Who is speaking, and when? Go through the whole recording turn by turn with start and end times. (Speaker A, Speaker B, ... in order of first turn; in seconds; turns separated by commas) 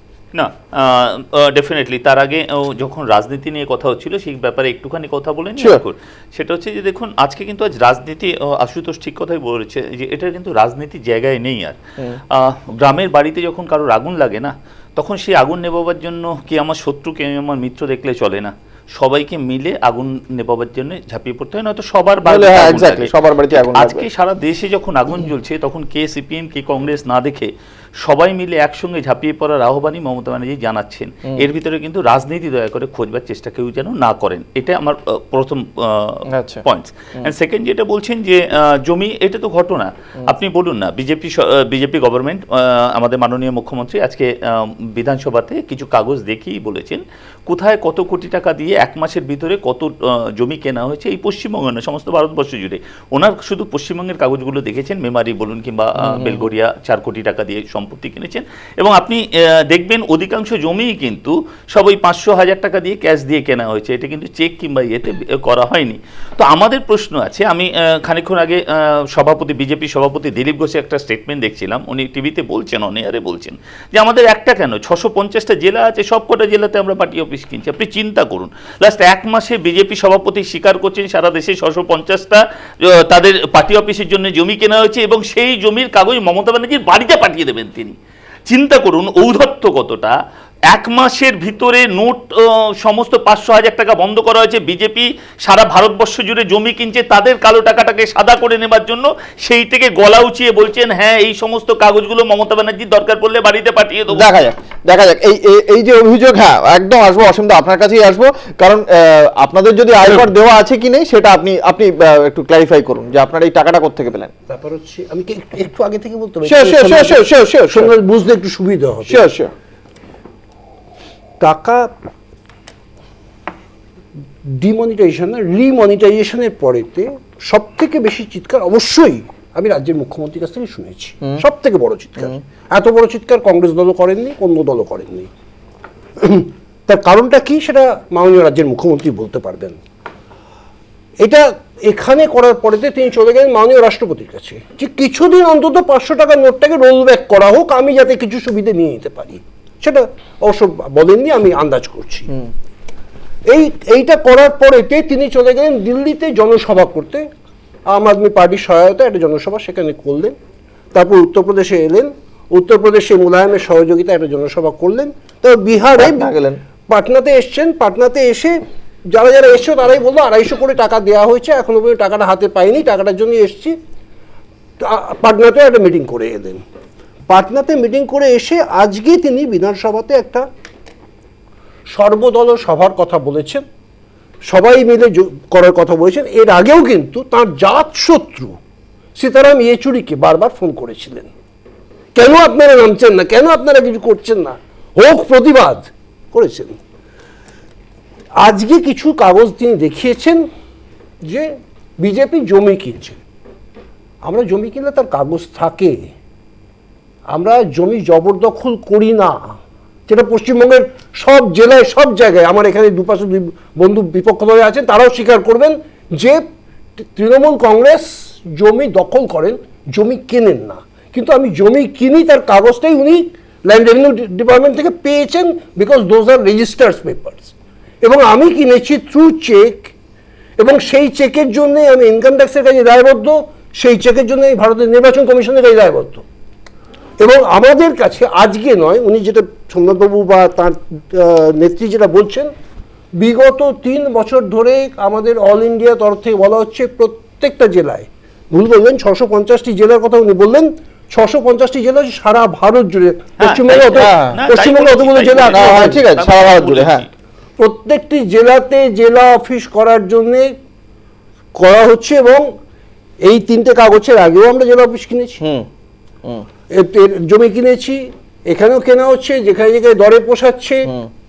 Speaker A: 0.3-11.8, Speaker B: 5.6-5.8, Speaker A: 12.3-23.1, Speaker B: 22.2-24.1, Speaker A: 23.6-27.5, Speaker A: 28.0-68.6, Speaker B: 36.3-36.6, Speaker B: 56.0-56.5, Speaker A: 69.1-88.0, Speaker A: 88.5-90.2, Speaker A: 90.7-92.3, Speaker A: 92.8-104.3, Speaker B: 104.1-114.3, Speaker C: 114.5-119.2, Speaker B: 116.4-117.9, Speaker B: 119.0-119.5, Speaker C: 121.4-121.9, Speaker C: 124.5-135.3, Speaker C: 136.2-139.8, Speaker C: 141.2-152.3, Speaker C: 153.5-157.3, Speaker C: 157.9-160.3, Speaker C: 160.9-166.3, Speaker B: 166.0-166.6, Speaker C: 166.9-173.8, Speaker C: 174.8-176.6, Speaker C: 177.3-180.5, Speaker C: 181.9-183.6, Speaker C: 184.4-188.6, Speaker C: 189.2-191.3, Speaker C: 192.1-196.7, Speaker C: 198.4-200.5, Speaker C: 201.2-203.2, Speaker C: 204.2-206.1, Speaker C: 207.3-209.6, Speaker C: 210.1-216.4, Speaker C: 217.0-229.9, Speaker C: 230.6-236.2, Speaker C: 237.2-242.5, Speaker C: 243.1-256.0, Speaker A: 253.4-257.1, Speaker B: 253.9-254.4, Speaker B: 255.4-257.1, Speaker C: 257.6-260.5, Speaker C: 261.5-262.5, Speaker C: 263.2-265.4, Speaker B: 265.4-265.7, Speaker C: 266.7-270.9